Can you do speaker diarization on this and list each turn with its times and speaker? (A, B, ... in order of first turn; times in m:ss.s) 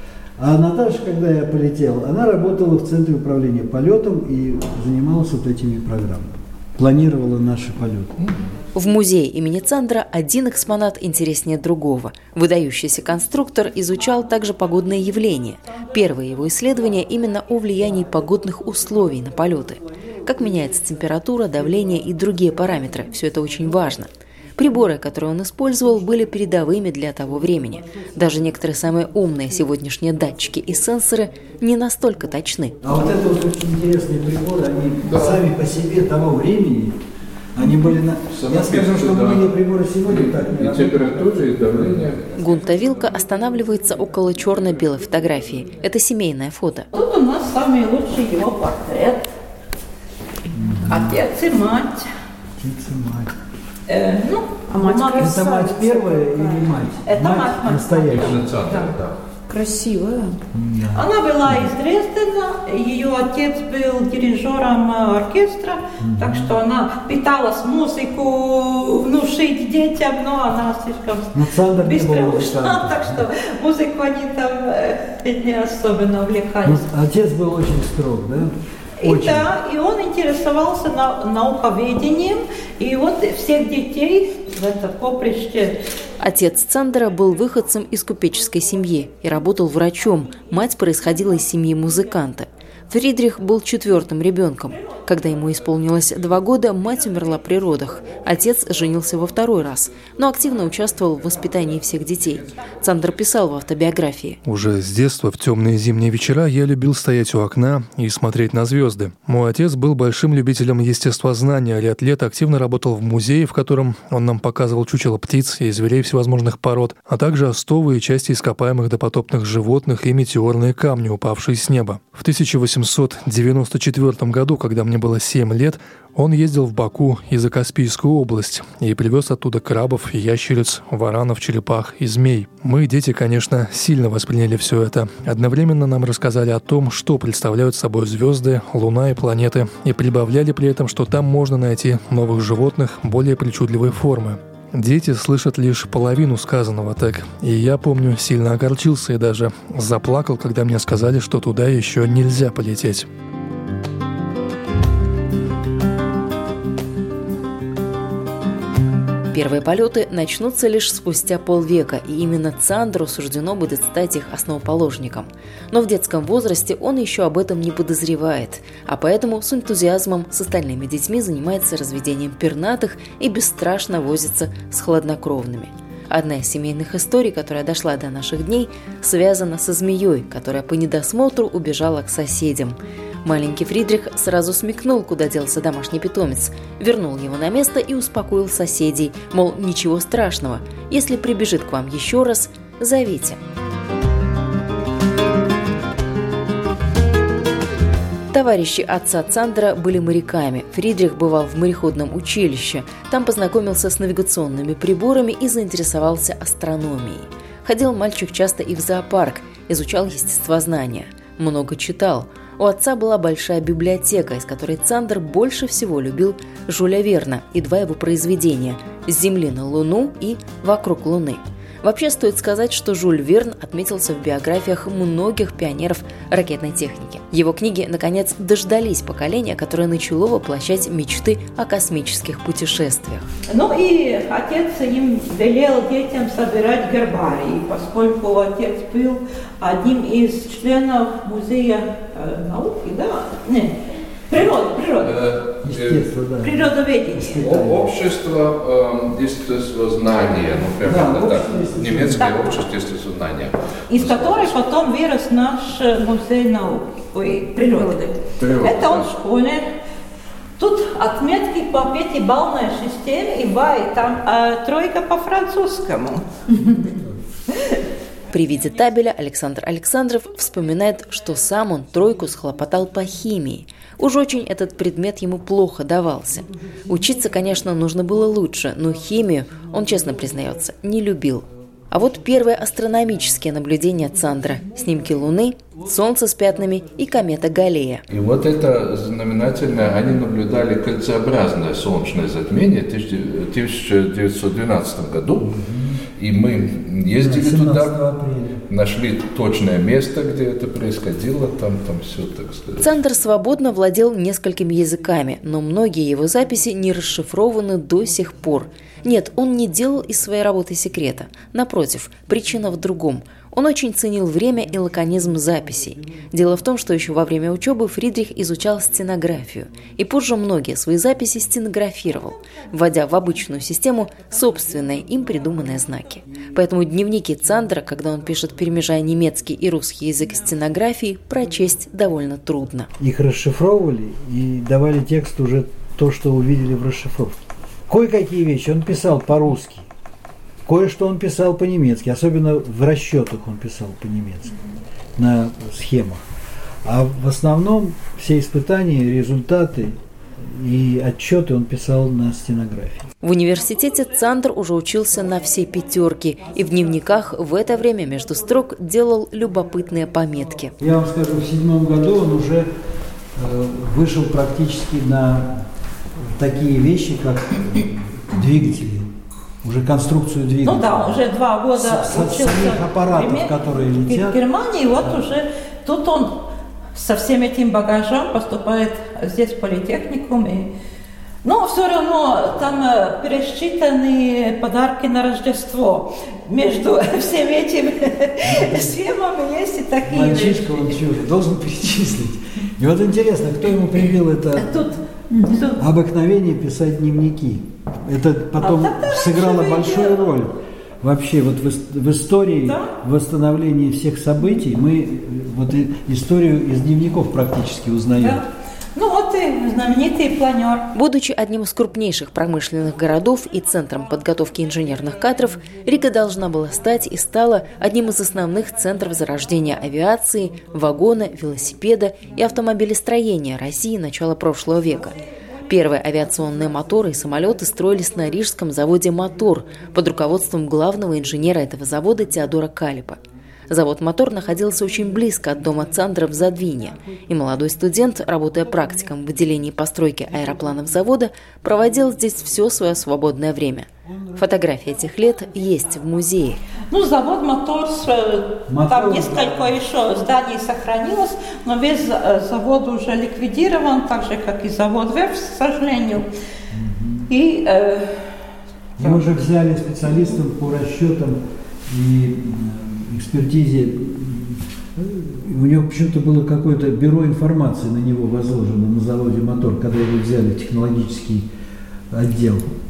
0:00.4-0:08.2 A
0:08.2-0:08.6 B
0:08.7-0:32.8 C
0:32.8-0:37.0 A
0:35.1-0:35.4 B
0:37.5-0:41.8 A
0:38.3-0:39.5 B
0:40.0-0:42.3 B
0:42.4-0:46.9 C
0:46.9-0:49.2 D
0:50.5-0:51.2 A
0:50.8-0:52.1 D
0:52.6-0:53.4 A
0:53.9-0:55.4 D
0:54.7-0:56.7 E
0:55.2-0:58.4 A
0:57.0-0:58.9 D
0:58.1-0:59.2 B
0:59.5-1:00.4 E
1:00.5-1:01.7 A
1:00.9-1:16.8 D
1:06.0-1:06.6 A
1:11.3-1:13.2 A
1:16.6-1:19.5 A
1:19.0-1:25.8 D
1:26.2-1:44.4 C
1:44.4-2:33.1 F
2:39.3-3:13.4 C
3:18.3-3:53.2 C
3:53.5-4:03.8 D
4:04.3-4:05.2 D
4:05.0-4:06.1 B
4:05.6-4:08.0 A
4:06.4-4:07.4 D
4:07.4-4:14.6 B
4:10.8-4:12.3 A
4:12.2-4:12.5 D
4:13.9-4:19.7 D
4:18.4-4:19.1 B
4:20.6-4:26.7 D
4:28.3-4:48.0 C
4:48.1-4:55.5 B
4:55.4-4:56.0 A
4:56.2-4:57.9 B
4:57.1-4:58.6 A
4:58.7-5:02.9 B
5:02.8-5:32.9 C
5:33.0-5:39.9 A
5:40.6-5:44.6 A
5:45.2-5:46.2 A
5:46.8-5:53.0 A
5:53.2-6:00.7 C
6:00.8-6:02.7 A
6:03.3-6:05.7 A
6:06.2-6:09.1 A
6:09.6-6:11.2 A
6:10.6-6:16.4 D
6:11.7-6:14.4 A
6:16.9-6:20.7 D
6:21.4-6:31.0 D
6:28.4-6:29.0 A
6:30.0-6:34.8 A
6:34.6-6:35.8 D
6:35.8-6:48.4 A
6:38.6-6:40.2 D
6:42.6-6:42.9 D
6:48.2-6:50.9 D
6:50.9-7:05.2 C
7:05.7-7:26.6 C
7:24.0-7:24.6 A
7:26.9-7:36.3 D
7:28.7-7:29.8 A
7:36.7-7:37.3 A
7:37.3-7:38.4 D
7:39.0-7:51.5 A
7:52.1-7:52.7 A